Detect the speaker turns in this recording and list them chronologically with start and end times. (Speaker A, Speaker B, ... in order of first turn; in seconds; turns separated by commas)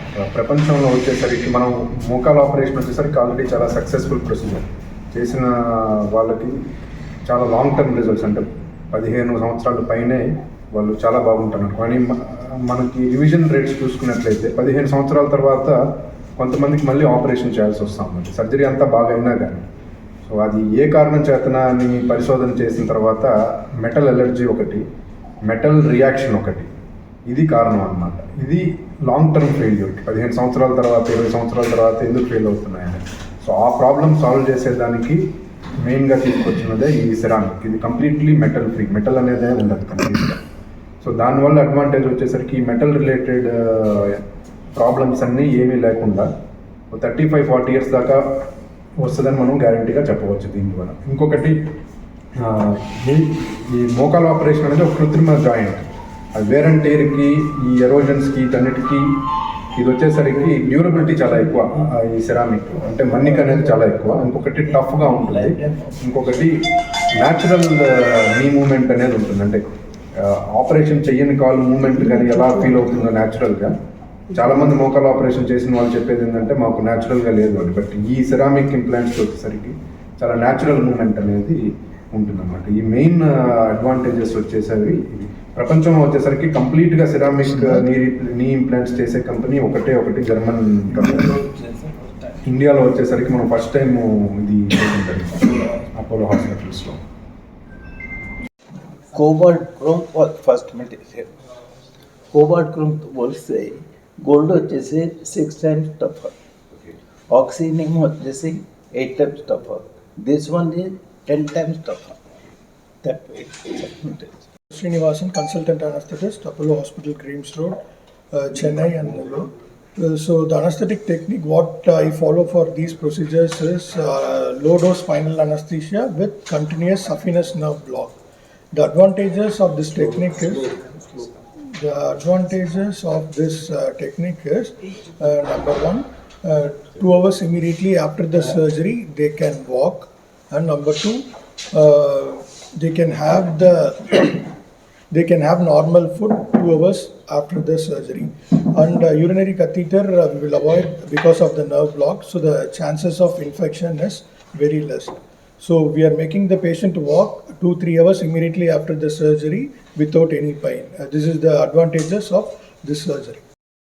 Speaker A: 0.2-6.6, Speaker A: 7.2-15.8, Speaker A: 16.4-19.7, Speaker A: 20.2-24.8, Speaker A: 25.5-26.7, Speaker A: 27.3-35.2, Speaker A: 35.8-40.4, Speaker A: 41.0-44.2, Speaker A: 44.8-46.3, Speaker A: 46.9-48.5, Speaker A: 49.0-51.6, Speaker A: 52.4-59.2, Speaker A: 59.8-66.5, Speaker B: 60.7-62.0, Speaker B: 63.2-66.5, Speaker A: 67.2-69.6, Speaker A: 70.2-73.7, Speaker A: 74.3-91.4, Speaker B: 87.6-87.8, Speaker B: 90.9-92.2, Speaker A: 92.5-97.0, Speaker B: 99.1-101.3, Speaker B: 102.3-106.3, Speaker B: 107.3-112.2, Speaker B: 113.0-114.3, Speaker C: 114.7-117.8, Speaker C: 118.3-128.2, Speaker C: 128.7-144.5, Speaker C: 145.1-163.4